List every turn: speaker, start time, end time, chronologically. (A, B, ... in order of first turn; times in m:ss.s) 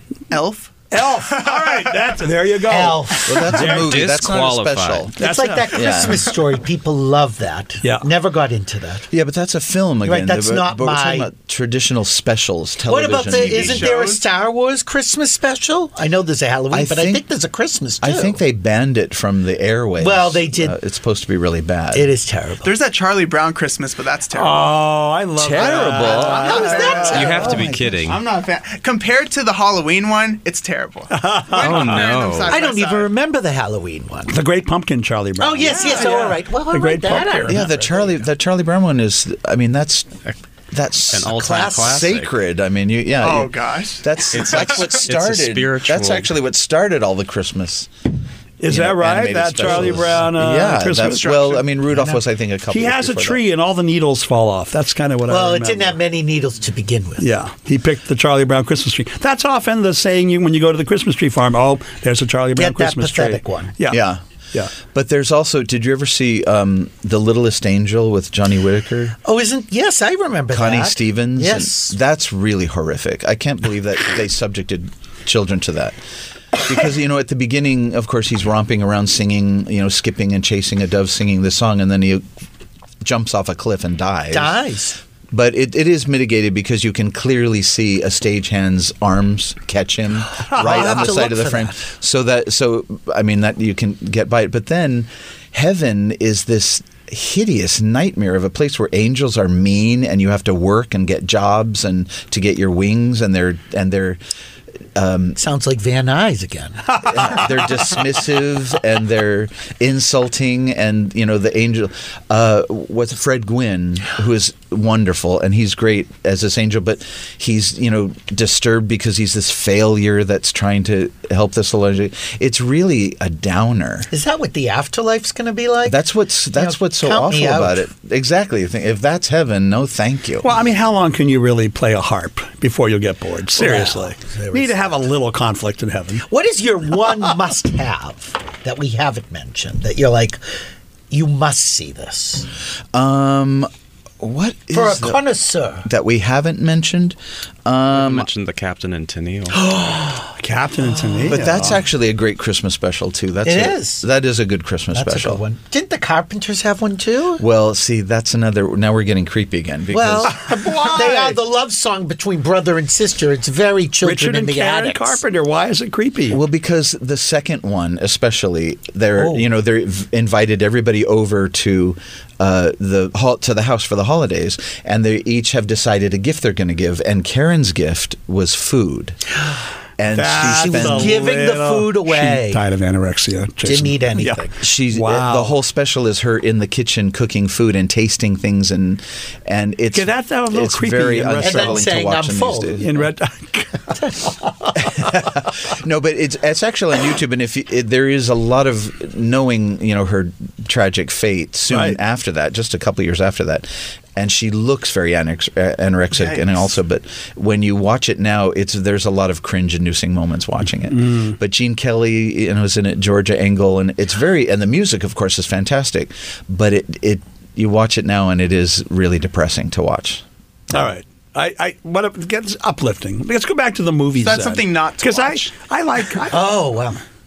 0:00.3-0:02.2 A
0:00.9-0:04.1 B
0:02.7-0:03.6 C
0:03.2-0:06.3 D
0:03.7-0:05.0 E
0:05.2-0:09.1 C
0:05.2-0:05.8 B
0:09.1-0:13.9 D
0:10.0-0:11.3 C
0:12.8-0:18.4 C
0:13.5-0:14.2 A
0:16.7-0:17.2 D
0:18.0-0:22.1 D
0:20.0-0:20.8 C
0:21.9-0:22.7 C
0:22.6-0:24.6 A
0:24.3-0:27.4 B
0:25.4-0:28.1 D
0:26.2-0:27.7 C
0:26.2-0:27.4 A
0:27.1-0:28.2 E
0:28.0-0:33.1 A
0:31.1-0:32.1 B
0:31.6-0:32.5 E
0:32.5-0:34.3 C
0:34.3-0:37.6 B
0:35.4-0:38.2 C
0:35.6-0:36.3 A
0:37.5-0:40.2 D
0:40.7-0:47.9 D
0:41.1-0:42.3 E
0:41.3-0:42.0 C
0:43.2-0:45.0 A
0:45.0-0:46.3 E
0:48.6-0:51.4 B
0:48.6-0:53.4 D
0:51.1-0:51.6 A
0:51.9-0:52.2 C
0:52.7-0:56.0 B
0:55.3-0:57.2 C
0:57.2-1:04.0 B
1:02.6-1:03.8 C
1:03.9-1:04.2 D
1:04.8-1:09.1 D
1:09.2-1:12.0 C
1:10.5-1:16.0 D
1:16.6-1:22.2 D
1:23.0-1:24.6 D
1:24.3-1:25.0 C
1:25.3-1:44.2 D
1:30.4-1:31.8 C
1:44.9-1:45.4 D
1:45.4-1:47.6 C
1:46.9-2:04.1 D
2:04.1-2:07.9 C
2:05.8-2:10.5 D
2:10.4-2:16.2 B
2:13.6-2:14.9 C
2:16.3-2:20.4 C
2:21.1-2:22.5 C
2:22.9-2:23.7 D
2:24.2-2:25.2 D
2:24.7-2:25.9 C
2:25.8-2:28.3 D
2:27.9-2:29.6 E
2:29.6-2:30.3 C
2:30.4-2:31.8 B
2:31.2-2:35.4 D
2:33.4-2:34.1 C
2:34.9-2:37.4 C
2:37.4-2:40.4 D
2:39.9-2:45.2 C
2:40.2-2:41.4 B
2:44.0-2:46.4 B
2:46.3-2:59.2 D
2:49.2-2:49.5 C
3:00.0-3:01.2 D
3:00.1-3:05.6 B
3:00.3-3:02.6 C
3:03.6-3:04.6 C
3:04.6-3:13.0 D
3:09.9-3:11.8 B
3:11.4-3:12.8 C
3:12.8-3:14.0 B
3:13.9-3:14.4 C
3:14.8-3:40.2 D
3:21.7-3:22.0 B
3:26.1-3:26.6 A
3:30.9-3:31.4 B
3:40.7-3:46.6 B
3:44.2-3:45.5 A
3:46.3-3:47.0 C